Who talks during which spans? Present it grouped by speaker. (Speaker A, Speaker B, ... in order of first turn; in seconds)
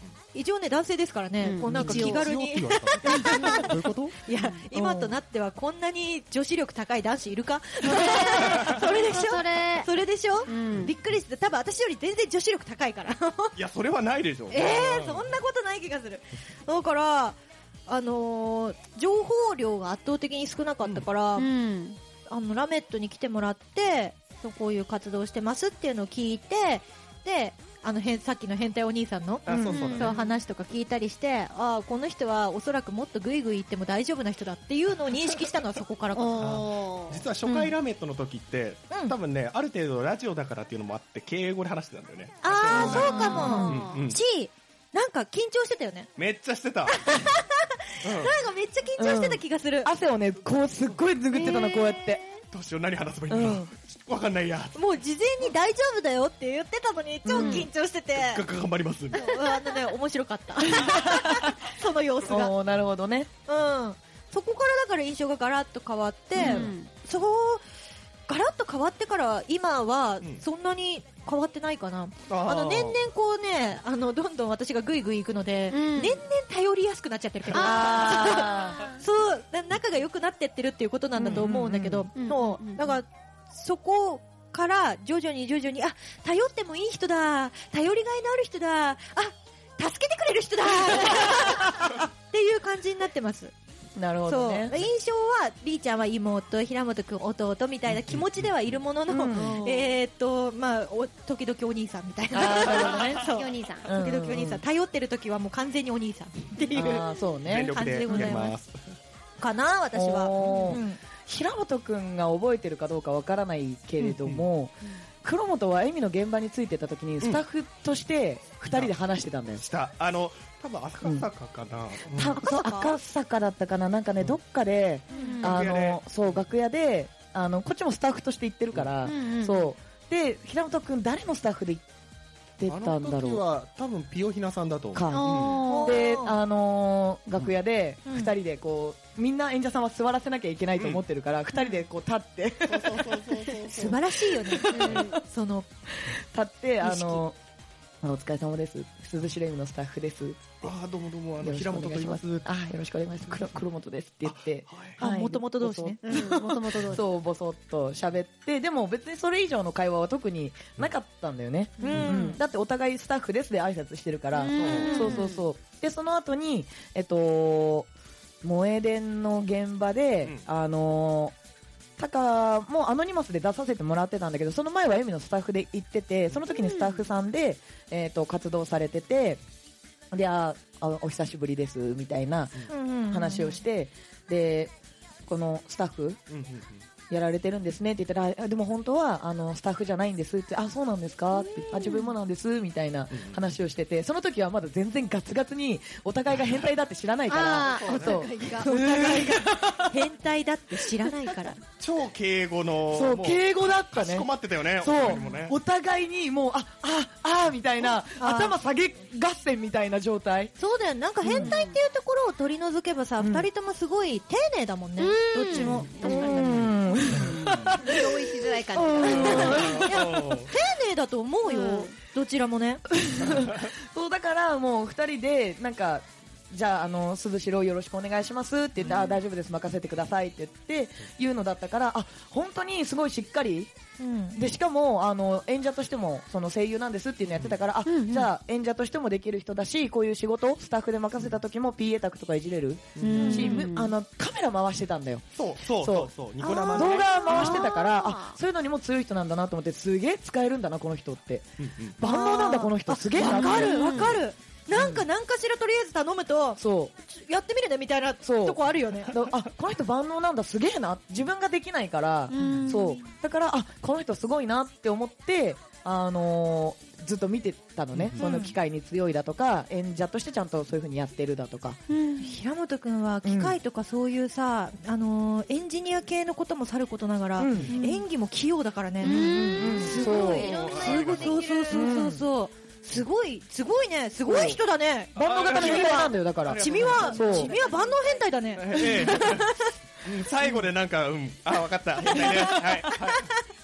Speaker A: 0.3-13.6, 14.5-21.5, 22.3-36.5, 42.4-46.1, 46.9-49.9, 51.4-51.7, 54.8-58.5, 59.1-62.5, 63.5-67.6, 68.3-93.5, 94.3-107.1, 107.7-108.6, 109.4-111.0, 122.4-123.0, 125.1-125.4, 135.6-136.4, 138.1-138.3, 143.6-145.7, 146.8-147.2, 155.0-156.4, 161.8-162.4, 164.8-165.2, 182.7-183.6, 198.4-201.6, 208.2-208.6, 210.6-216.8, 219.1-222.8, 234.0-234.4, 243.2-243.6, 247.3-247.6, 252.0-259.1, 268.2-268.5, 272.2-289.7, 292.1-293.3
Speaker B: 1.4-2.3, 3.2-3.7, 7.8-9.9, 10.5-10.9, 21.4-22.0, 29.5-30.3, 36.1-37.7, 42.7-44.0, 51.3-52.3, 57.4-57.7, 66.4-66.9, 75.7-76.2, 77.5-79.0, 82.2-83.0, 99.3-100.0, 102.6-103.9, 125.1-125.6, 129.0-129.7, 135.1-136.0, 144.7-145.1, 156.0-157.0, 161.8-162.1, 164.3-165.4, 176.5-177.1, 191.5-192.1, 197.3-198.7, 205.1-205.3, 211.3-211.8, 215.0-219.9, 221.5-221.9, 228.8-229.2, 237.9-238.3, 243.0-243.9, 246.4-248.4, 253.2-254.2, 262.3-263.0, 271.9-272.3, 279.0-282.0, 286.8-288.2
Speaker C: 1.7-4.2, 8.4-8.8, 13.6-15.3, 29.5-30.2, 36.4-44.2, 46.2-47.0, 48.0-48.4, 52.5-54.8, 58.1-59.3, 72.3-73.0, 98.1-98.5, 107.4-108.8, 114.0-114.5, 119.6-122.4, 125.4-126.0, 132.7-135.6, 142.7-143.9, 150.6-152.5, 154.3-155.0, 164.6-165.0, 186.3-186.8, 193.1-193.4, 197.7-198.3, 201.8-205.6, 217.1-217.8, 219.1-220.5, 223.3-223.6, 243.0-243.6, 245.3-247.1, 251.6-252.0, 267.9-268.2, 279.7-281.4, 285.2-287.5, 288.6-293.3
Speaker D: 4.7-5.2, 29.5-29.8, 43.2-43.8, 49.0-52.2, 53.3-53.7, 57.2-57.7, 60.7-61.5, 62.2-63.3, 66.4-66.7, 77.5-78.9, 81.2-82.1, 94.0-94.7, 99.1-99.7, 102.3-104.6, 106.7-107.8, 109.9-119.6, 121.0-121.3, 122.1-131.8, 132.6-133.4, 134.9-145.2, 146.0-147.4, 148.0-150.7, 151.4-167.9, 168.4-171.3, 172.0-179.4, 180.1-184.7, 185.3-186.2, 187.1-200.0, 202.9-210.5, 211.2-211.6, 213.2-213.5, 215.6-220.0, 222.9-233.7, 234.4-245.2, 245.8-246.1, 246.7-254.1, 254.7-255.1, 256.6-256.9, 258.2-271.8, 273.2-273.6, 277.4-278.0, 279.1-280.5, 281.7-282.2, 284.2-284.6, 285.2-287.6, 288.8-289.1